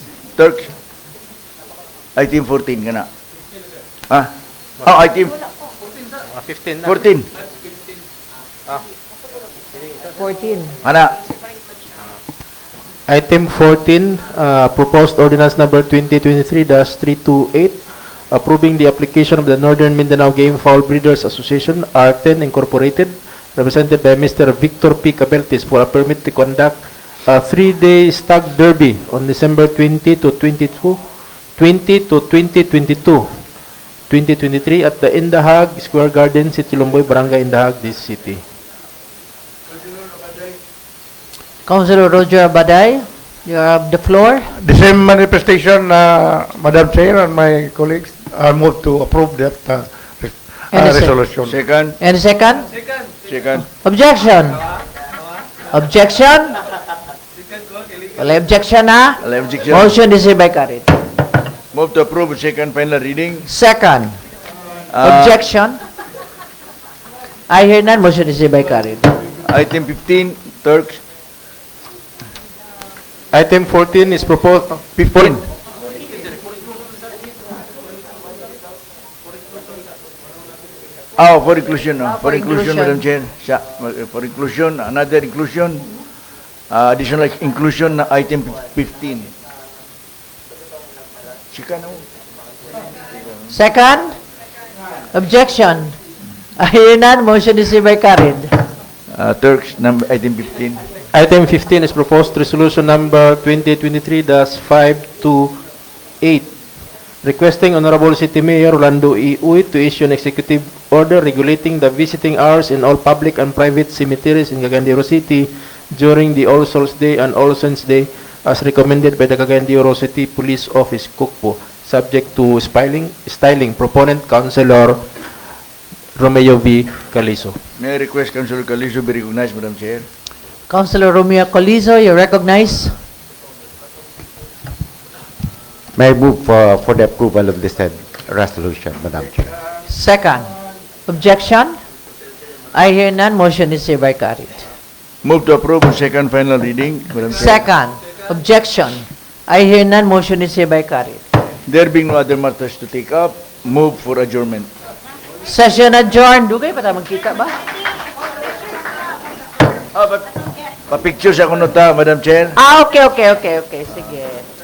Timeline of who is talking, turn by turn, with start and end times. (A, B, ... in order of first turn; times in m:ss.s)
0:00.4-0:00.7 A
0:02.2-0:03.0 A
0:04.8-0:05.3 A
0:06.3-0:06.9 B
0:06.8-0:07.3 A
0:10.2-0:10.8 C
0:10.8-0:11.1 A
0:13.1-0:17.8 B
0:18.3-0:31.0 B
0:31.6-0:33.3 B
0:34.1-0:38.4 B
0:41.6-0:44.5 C
0:44.6-0:51.6 D
0:50.7-0:51.2 C
0:51.4-0:52.0 A
0:52.0-0:52.7 C
0:53.3-0:53.7 A
0:53.8-0:54.6 C
0:55.7-0:56.5 C
0:58.2-1:01.0 C
0:59.2-0:59.9 A
1:01.7-1:03.5 A
1:03.5-1:04.2 C
1:04.9-1:05.4 A
1:05.0-1:05.8 C
1:07.5-1:09.1 C
1:09.4-1:11.0 A
1:13.3-1:15.4 B
1:15.0-1:15.4 A
1:21.2-1:25.9 A
1:22.1-1:23.0 C
1:26.7-1:29.3 A
1:31.5-1:32.0 A
1:33.5-1:34.2 C
1:35.1-1:36.0 C
1:36.6-1:38.5 C
1:39.1-1:40.8 A
1:41.1-1:45.6 B
1:46.2-1:46.5 B
1:47.2-2:05.0 B
2:06.2-2:07.6 B
2:07.8-2:10.0 A
2:10.7-2:13.0 C
2:15.9-2:19.5 E
2:19.9-2:20.5 C
2:21.1-2:21.8 C
2:22.7-2:24.7 C
2:25.2-2:27.6 A
2:27.3-2:31.2 C
2:31.7-2:34.7 A
2:35.4-2:37.6 C
2:39.9-2:40.2 A
2:40.9-2:42.6 A
2:42.6-2:44.5 C